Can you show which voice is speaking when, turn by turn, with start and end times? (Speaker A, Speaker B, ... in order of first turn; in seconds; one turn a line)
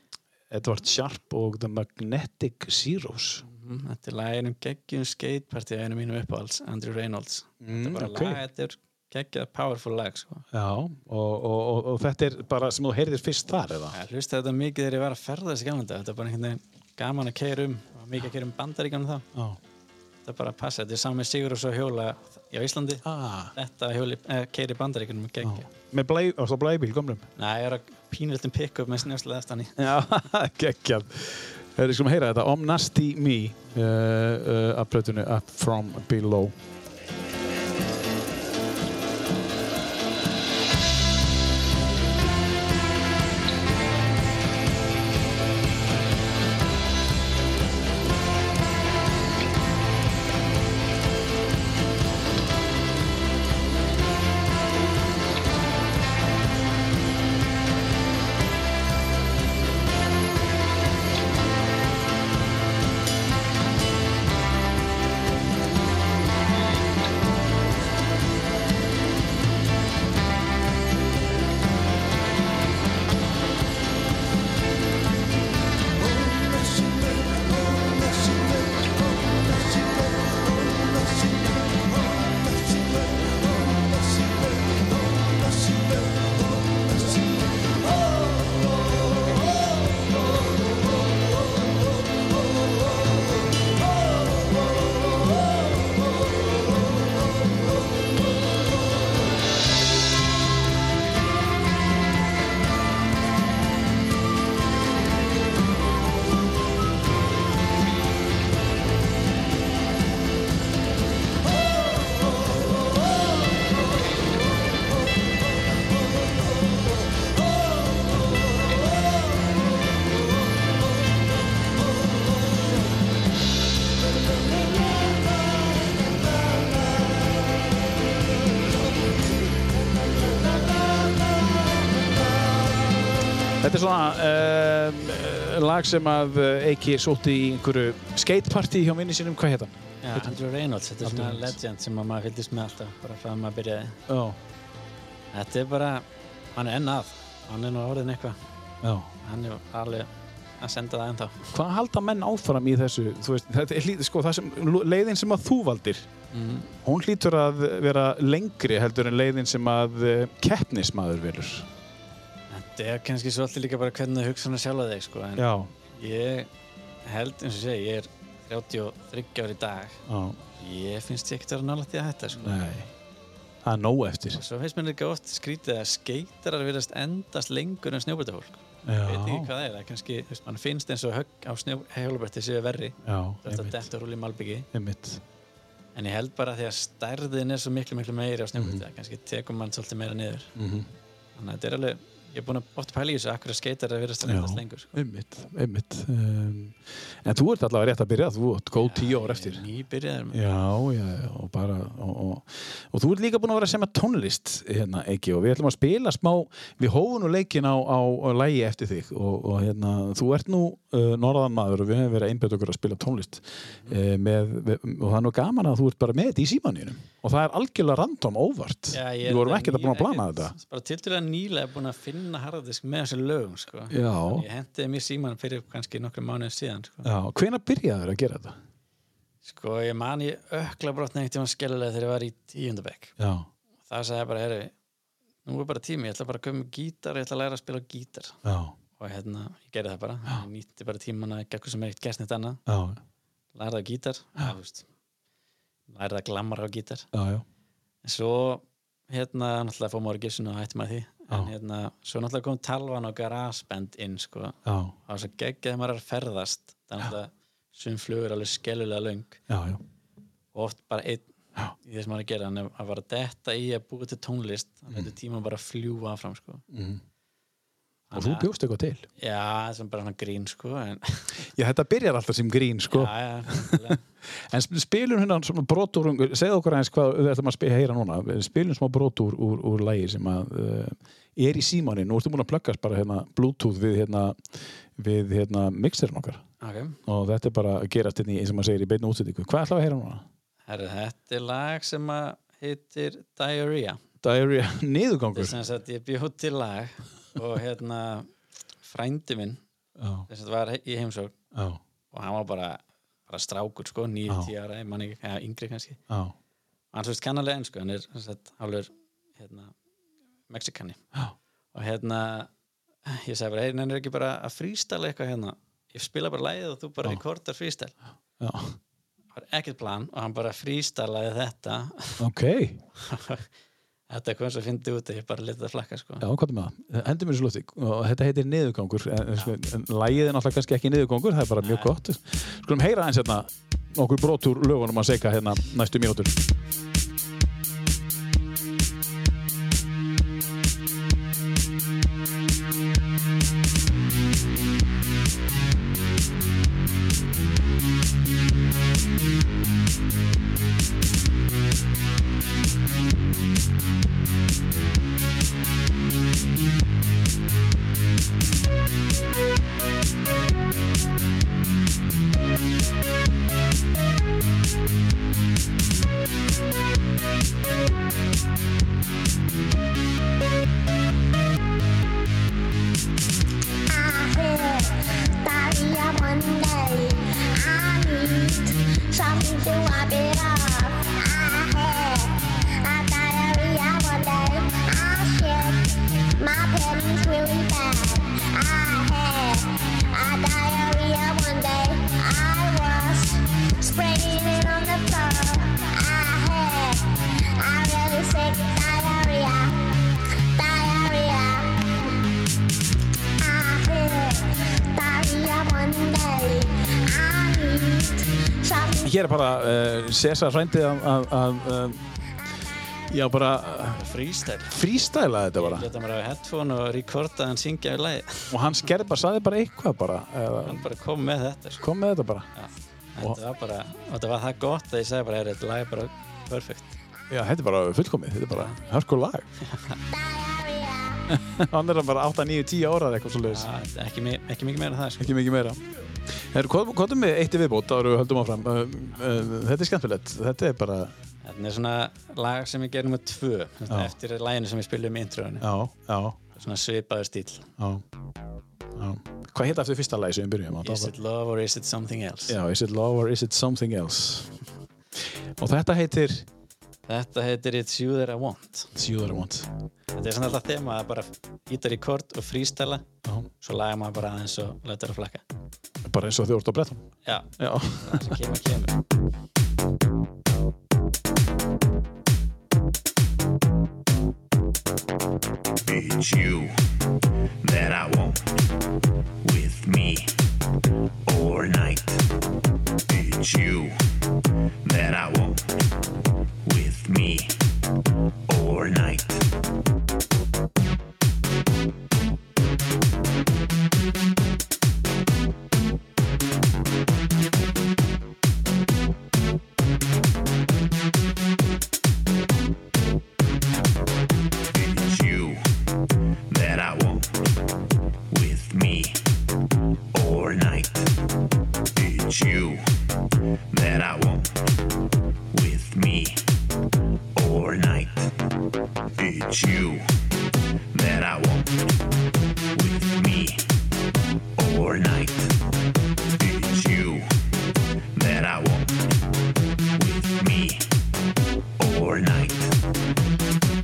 Speaker A: 0.5-3.4
Speaker B: 3.4-10.4
Speaker A: 7.6-8.4
Speaker A: 10.5-13.9
Speaker B: 13.9-19.2
Speaker A: 19.3-19.6
Speaker B: 20.2-25.7
Speaker A: 23.0-23.5
Speaker A: 25.4-27.3
Speaker B: 27.4-29.8
Speaker A: 29.8-36.5
Speaker A: 133.6-140.3
Speaker B: 140.0-144.0
Speaker A: 141.0-141.6
Speaker A: 144.1-144.4
Speaker B: 145.3-148.4
Speaker A: 148.8-149.1
Speaker B: 149.2-151.5
Speaker A: 151.5-156.1
Speaker B: 156.3-156.7
Speaker A: 156.8-161.7
Speaker B: 162.5-166.5
Speaker A: 165.3-165.7
Speaker B: 167.0-170.0
Speaker A: 170.1-170.4
Speaker B: 170.6-172.6
Speaker A: 172.4-172.9
Speaker A: 173.6-174.4
Speaker B: 174.3-184.7
Speaker A: 178.8-179.5
Speaker A: 183.0-183.9
Speaker A: 184.7-185.2
Speaker B: 185.9-190.5
Speaker A: 188.6-188.8
Speaker A: 190.6-190.9
Speaker B: 191.3-194.9
Speaker A: 194.2-199.7
Speaker B: 198.7-200.4
Speaker A: 200.3-220.5
Speaker B: 213.6-214.0
Speaker B: 218.9-227.1
Speaker A: 223.9-224.4
Speaker A: 227.0-228.5
Speaker B: 229.4-233.1
Speaker A: 233.2-233.5
Speaker B: 233.9-234.7
Speaker B: 235.4-238.4
Speaker A: 238.4-238.7
Speaker B: 239.0-242.6
Speaker A: 242.7-243.0
Speaker B: 243.5-244.8
Speaker B: 245.9-247.1
Speaker A: 247.1-247.4
Speaker B: 248.0-259.4
Speaker A: 254.7-254.9
Speaker A: 259.5-259.8
Speaker B: 260.5-261.3
Speaker B: 261.8-266.6
Speaker A: 266.7-267.0
Speaker B: 268.1-268.5
Speaker A: 268.1-269.1
Speaker B: 269.2-271.5
Speaker A: 271.4-286.4
Speaker B: 272.9-274.0
Speaker B: 286.6-287.0
Speaker A: 287.1-290.2
Speaker B: 290.7-294.0
Speaker A: 294.2-295.6
Speaker B: 295.3-298.3
Speaker B: 298.8-299.6
Speaker A: 300.0-300.3
Speaker B: 300.3-301.3
Speaker A: 301.5-301.8
Speaker B: 302.1-306.0
Speaker A: 306.1-306.3
Speaker B: 306.9-309.7
Speaker B: 310.5-311.0
Speaker B: 311.7-312.5
Speaker B: 313.1-317.9
Speaker A: 318.4-318.8
Speaker B: 319.3-322.2
Speaker A: 322.2-322.8
Speaker B: 322.9-323.5
Speaker B: 324.1-326.2
Speaker A: 326.2-336.3
Speaker B: 331.6-331.9
Speaker C: 373.9-402.1
Speaker C: 403.4-409.1
Speaker A: 409.0-412.0
Speaker A: 413.1-414.0
Speaker B: 413.9-414.8
Speaker A: 414.6-415.9
Speaker B: 415.6-418.6
Speaker A: 418.5-420.9
Speaker B: 420.6-421.8
Speaker A: 421.8-422.5
Speaker B: 422.5-426.9
Speaker A: 427.3-429.5
Speaker B: 428.5-428.8
Speaker B: 429.6-430.0
Speaker C: 430.1-431.4
Speaker A: 431.3-433.7
Speaker B: 433.4-435.3
Speaker A: 435.2-441.1
Speaker B: 441.4-445.7
Speaker A: 443.9-444.1
Speaker A: 445.6-446.4
Speaker B: 446.5-447.7
Speaker A: 447.8-448.0
Speaker A: 448.9-451.1
Speaker B: 450.8-452.6
Speaker A: 452.5-454.5
Speaker A: 455.6-456.4
Speaker B: 457.1-458.9
Speaker A: 458.9-459.7
Speaker B: 460.1-463.1
Speaker B: 463.6-465.4
Speaker A: 466.0-467.1
Speaker B: 467.2-469.0
Speaker A: 467.6-468.4
Speaker D: 475.9-476.9
Speaker D: 477.6-478.6
Speaker D: 479.4-480.4
Speaker D: 481.2-482.3
Speaker D: 483.1-484.1
Speaker D: 484.8-485.8
Speaker D: 486.6-487.7
Speaker D: 488.5-489.5
Speaker D: 504.7-505.8
Speaker D: 506.5-507.5
Speaker D: 508.3-509.4
Speaker D: 510.1-511.2
Speaker D: 511.9-513.0
Speaker D: 513.7-514.7
Speaker D: 515.5-516.6
Speaker D: 517.3-518.3
Speaker D: 519.2-520.1
Speaker D: 520.9-521.9
Speaker D: 522.7-523.7
Speaker D: 524.5-525.6
Speaker D: 526.4-527.3
Speaker D: 528.1-529.0
Speaker D: 530.0-530.9
Speaker D: 531.8-532.8